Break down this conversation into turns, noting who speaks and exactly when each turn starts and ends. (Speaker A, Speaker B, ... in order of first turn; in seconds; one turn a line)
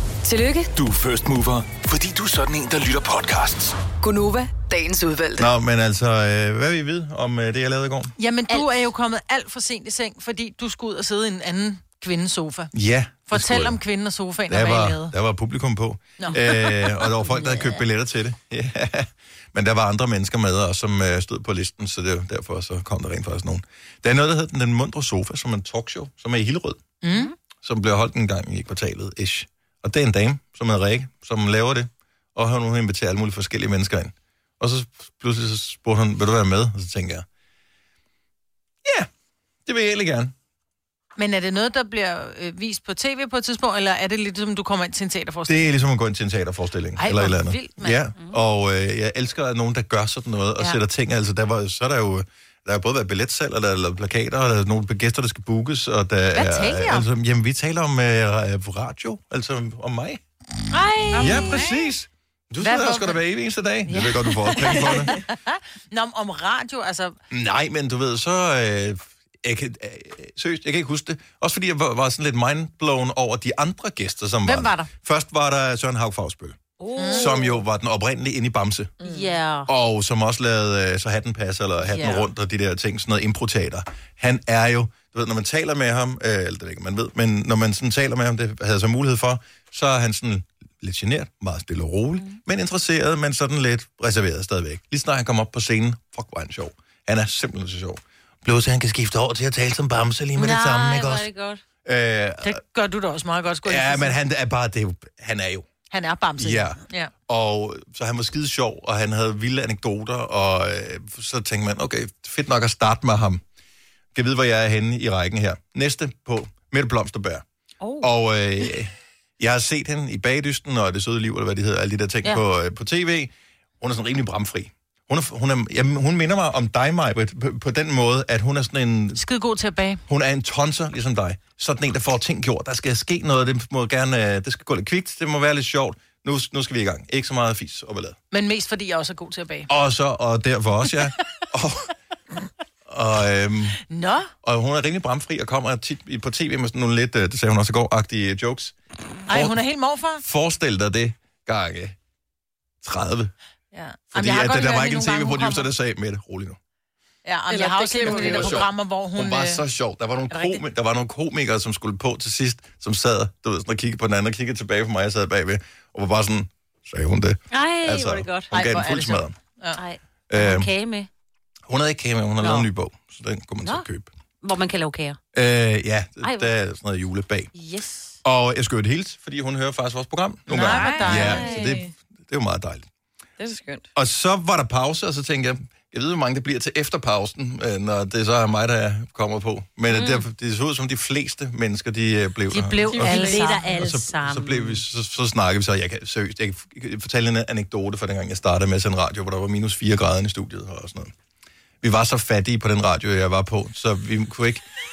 Speaker A: 0.2-0.7
Speaker B: 0.7-3.8
Speaker A: 4.0-5.5
Speaker C: 5.4-8.1
Speaker D: 8.2-12.7
Speaker C: 12.7-13.8
Speaker D: 13.3-15.1
Speaker C: 14.5-26.8
Speaker D: 16.2-16.7
Speaker D: 27.0-27.3
Speaker C: 27.6-37.2
Speaker C: 38.8-39.1
Speaker C: 39.6-40.3
Speaker D: 41.2-45.8
Speaker C: 45.5-60.2
Speaker D: 47.0-48.0
Speaker D: 56.3-57.0
Speaker D: 60.7-61.7
Speaker E: 61.1-61.5
Speaker C: 61.2-65.2
Speaker D: 62.6-63.2
Speaker D: 63.9-67.2
Speaker C: 67.3-76.6
Speaker D: 74.4-74.9
Speaker F: 76.8-77.5
Speaker D: 77.0-77.3
Speaker C: 77.1-78.9
Speaker E: 79.0-79.3
Speaker F: 79.0-79.7
Speaker C: 79.7-101.3
Speaker F: 100.3-101.6
Speaker C: 101.8-102.6
Speaker D: 102.4-104.2
Speaker C: 103.6-105.7
Speaker D: 105.9-107.1
Speaker C: 106.4-113.4
Speaker C: 114.1-117.4
Speaker F: 117.8-118.1
Speaker C: 118.0-129.2
Speaker D: 129.2-130.0
Speaker C: 130.1-138.2
Speaker D: 138.3-139.7
Speaker C: 139.7-141.9
Speaker C: 142.9-143.8
Speaker D: 143.9-144.3
Speaker C: 144.4-148.7
Speaker C: 149.3-149.6
Speaker D: 149.3-150.2
Speaker C: 150.2-152.0
Speaker C: 152.8-153.3
Speaker D: 153.7-155.7
Speaker C: 154.1-156.6
Speaker D: 157.2-159.6
Speaker E: 157.5-158.7
Speaker C: 158.0-169.3
Speaker D: 160.3-160.6
Speaker F: 167.5-168.5
Speaker D: 168.5-169.8
Speaker F: 169.8-171.1
Speaker C: 170.3-170.7
Speaker C: 171.7-174.1
Speaker F: 172.4-172.7
Speaker F: 174.4-175.2
Speaker C: 175.3-177.5
Speaker F: 176.2-176.5
Speaker F: 177.5-178.2
Speaker C: 178.2-182.9
Speaker D: 180.5-181.7
Speaker F: 180.7-181.8
Speaker E: 180.7-181.8
Speaker E: 183.4-183.9
Speaker C: 183.9-201.1
Speaker D: 192.5-193.7
Speaker E: 192.9-193.2
Speaker F: 192.9-194.8
Speaker C: 201.8-204.6